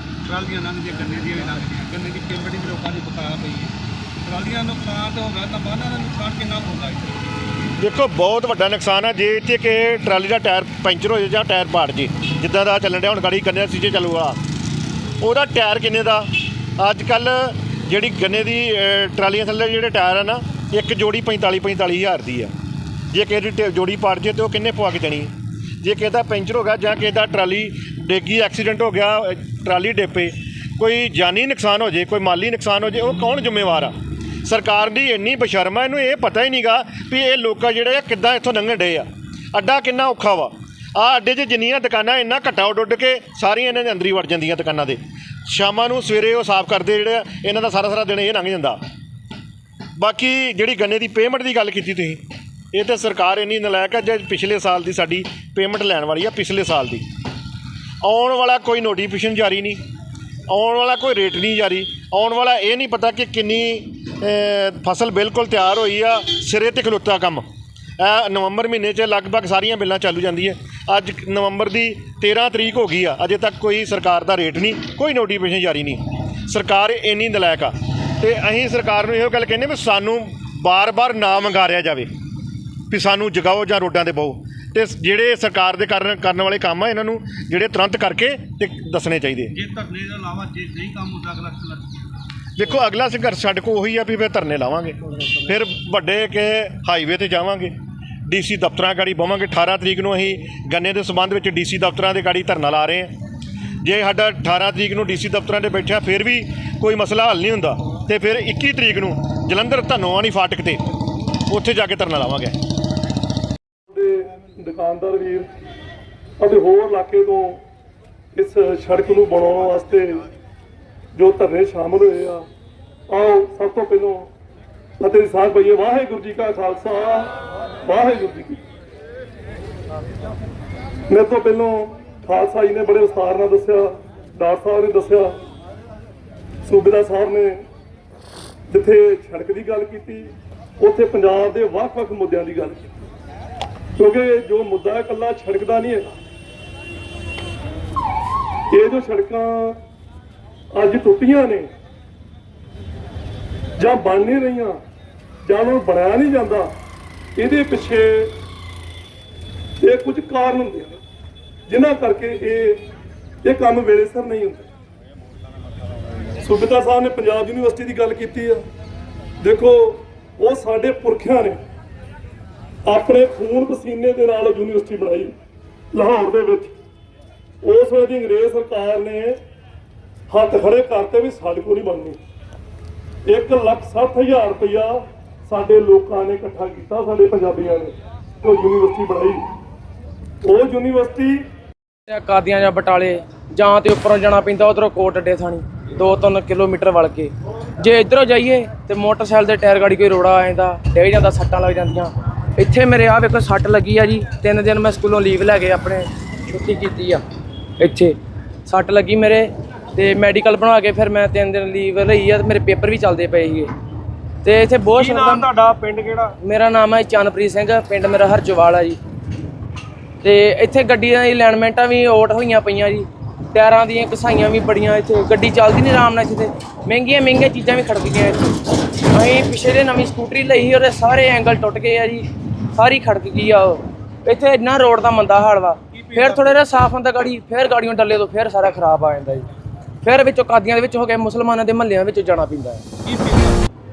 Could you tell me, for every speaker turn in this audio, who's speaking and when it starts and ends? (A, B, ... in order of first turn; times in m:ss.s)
0:00.2-0:03.7 A
0:04.2-0:07.2 A
0:07.8-0:14.4 B
0:15.2-0:16.3 B
0:16.8-0:22.5 B
0:23.1-0:33.9 B
0:34.4-0:48.8 B
0:50.0-0:57.0 B
0:58.0-0:59.8 B
1:00.5-1:07.4 B
1:08.0-1:22.1 B
1:22.9-1:29.5 B
1:29.5-1:31.9 A
1:32.6-1:37.7 B
1:38.3-1:43.1 B
1:43.8-1:50.8 B
1:51.5-1:52.6 B
1:53.9-1:55.5 C
1:56.4-1:57.6 C
1:58.4-2:00.2 C
2:01.2-2:02.4 C
2:03.1-2:04.3 C
2:05.0-2:07.3 C
2:07.8-2:08.6 C
2:11.1-2:15.4 C
2:16.6-2:17.6 C
2:18.7-2:22.8 C
2:24.0-2:26.2 C
2:28.7-2:29.8 C
2:30.7-2:31.7 C
2:33.8-2:34.8 C
2:35.4-2:36.7 C
2:37.4-2:38.3 C
2:39.8-2:41.0 C
2:41.7-2:42.8 C
2:43.4-2:44.6 C
2:46.4-2:48.6 C
2:49.4-2:51.6 C
2:52.8-2:55.3 C
2:55.9-2:56.7 C
2:57.6-2:59.4 C
3:00.3-3:02.2 C
3:03.3-3:09.5 C
3:10.4-3:11.4 C
3:12.1-3:27.2 D
3:27.8-3:28.1 D
3:28.6-3:33.7 D
3:34.4-3:35.5 D
3:35.0-3:36.3 A
3:36.4-3:39.0 D
3:40.2-3:48.5 D
3:49.1-3:59.5 D
3:55.9-3:56.6 A
4:00.0-4:02.8 D
4:03.0-4:03.6 A